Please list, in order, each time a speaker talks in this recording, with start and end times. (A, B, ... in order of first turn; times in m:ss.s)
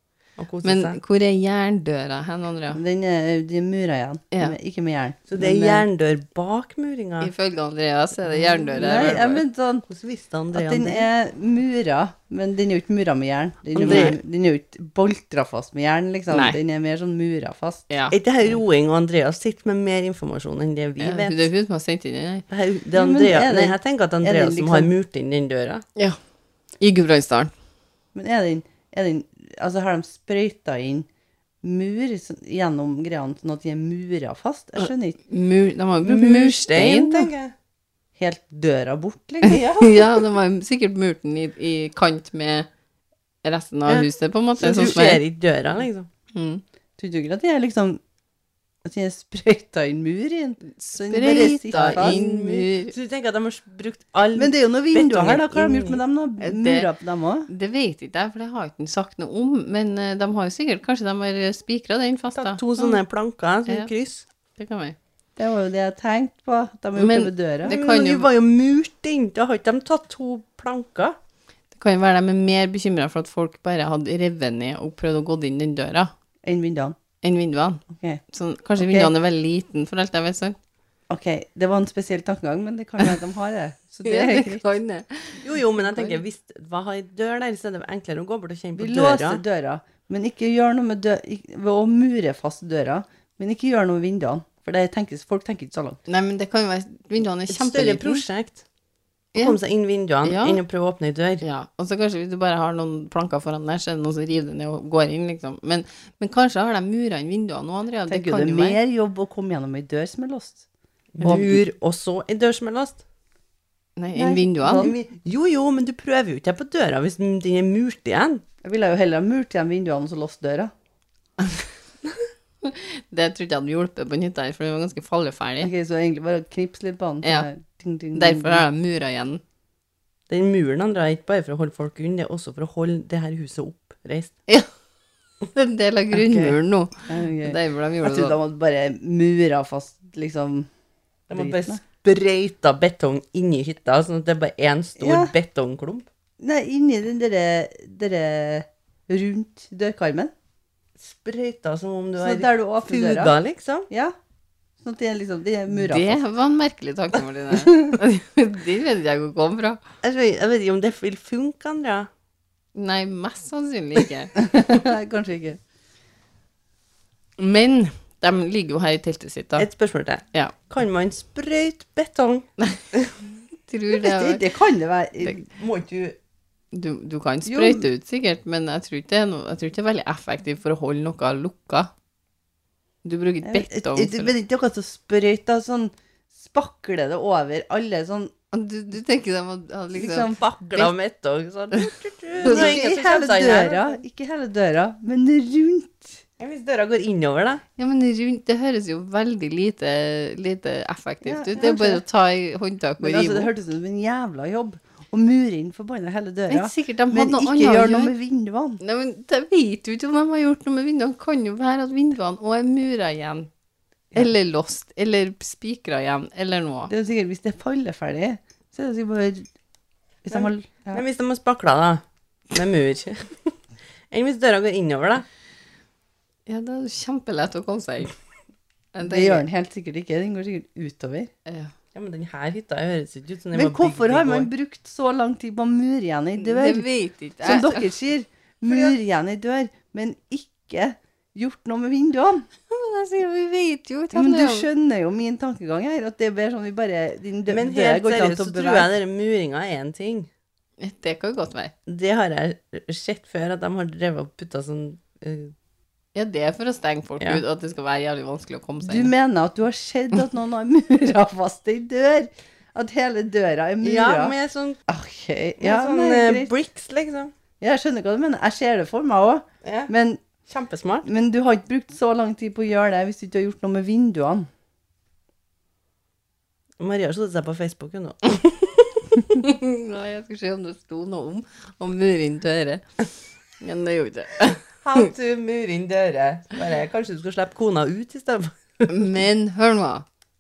0:00.4-0:01.0 A
0:00.6-0:02.8 B
0:02.7-0:05.8 C
0:05.3-0:07.3 A
0:07.2-0:09.4 B
0:08.3-0:09.2 A
0:08.8-0:09.9 C
0:09.9-0:11.1 A
0:10.5-0:17.9 C
0:13.8-0:14.2 A
0:13.8-0:14.2 B
0:16.3-0:16.6 B
0:17.9-0:18.2 B
0:18.1-0:21.5 A
0:21.0-0:22.4 B
0:22.5-0:25.8 A
0:22.9-0:24.9 C
0:26.8-0:27.5 B
0:28.2-0:31.1 C
0:31.6-0:35.2 C
0:35.3-0:37.3 B
0:36.0-0:37.5 A
0:38.2-0:39.7 C
0:39.4-0:42.7 B
0:39.5-0:40.2 A
0:43.4-0:45.2 B
0:43.9-0:46.1 A
0:46.3-0:46.6 B
0:47.0-0:48.0 C
0:48.8-0:52.2 C
0:50.7-0:52.9 B
0:51.3-0:56.0 A
0:54.4-0:57.5 C
0:56.4-0:56.9 B
0:57.5-1:03.0 B
1:02.4-1:04.2 A
1:04.6-1:05.0 B
1:05.4-1:07.8 C
1:07.0-1:08.3 B
1:07.6-1:11.2 A
1:11.7-1:16.1 B
1:16.4-1:17.0 C
1:17.2-1:20.6 B
1:17.9-1:18.2 C
1:18.8-1:19.1 C
1:21.1-1:24.6 C
1:24.0-1:26.2 B
1:25.4-1:29.4 A
1:28.8-1:36.0 C
1:36.1-1:38.3 B
1:37.5-1:38.6 A
1:39.4-1:41.4 A
1:40.2-1:40.6 B
1:41.4-1:48.8 B
1:48.1-1:50.6 C
1:51.2-1:53.0 A
1:51.2-1:51.5 B
1:51.2-1:51.6 C
1:54.0-1:54.9 B
1:54.2-1:55.0 C
1:54.8-1:58.4 A
1:58.6-2:00.7 C
2:02.6-2:05.7 B
2:05.6-2:08.6 C
2:07.2-2:07.5 B
2:08.2-2:09.4 B
2:10.3-2:14.3 A
2:15.5-2:18.4 B
2:17.1-2:20.7 C
2:21.3-2:26.1 A
2:21.3-2:21.8 C
2:25.0-2:25.3 C
2:26.4-2:30.3 C
2:31.0-2:33.9 A
2:32.2-2:33.4 C
2:34.8-2:36.2 C
2:35.8-2:39.8 B
2:37.7-2:37.9 C
2:40.0-2:42.1 A
2:42.8-2:44.3 B
2:44.4-2:45.6 C
2:47.4-2:49.7 B
2:49.6-2:53.1 A
2:53.7-2:54.4 B
2:54.0-2:55.4 C
2:55.4-2:56.2 A
2:56.7-3:01.9 B
2:57.5-2:57.8 C
3:03.0-3:04.3 B
3:03.4-3:08.3 C
3:08.5-3:10.3 B
3:10.0-3:10.9 C
3:10.3-3:14.0 A
3:12.4-3:16.2 C
3:12.4-3:12.7 B
3:16.4-3:17.6 A
3:17.8-3:23.5 B
3:21.2-3:22.0 C
3:23.0-3:28.8 C
3:26.5-3:28.1 B
3:28.8-3:33.5 B
3:34.1-3:36.9 B
3:36.9-3:39.5 C
3:40.2-3:41.0 C
3:40.3-3:43.6 A
3:44.1-3:45.3 A
3:46.5-3:48.2 B
3:48.9-3:49.4 B
3:49.0-3:51.3 C
3:51.5-3:51.7 B
3:51.9-3:54.5 A
3:53.5-3:56.9 C
3:56.4-3:57.9 B
3:57.4-4:02.5 C
3:58.7-3:59.0 A
4:02.7-4:04.7 B
4:04.1-4:08.9 C
4:07.5-4:10.3 A
4:10.8-4:11.7 B
4:11.9-4:15.5 A
4:16.2-4:19.1 B
4:18.8-4:24.4 C
4:23.8-4:24.8 A
4:24.9-4:26.5 C
4:25.6-4:27.3 A
4:27.6-4:30.2 C
4:29.6-4:29.9 A
4:30.5-4:31.1 A
4:31.0-4:34.5 C
4:36.8-4:39.4 A
4:39.4-4:42.9 B
4:43.6-4:45.0 B
4:44.8-4:48.9 A
4:48.9-4:50.1 B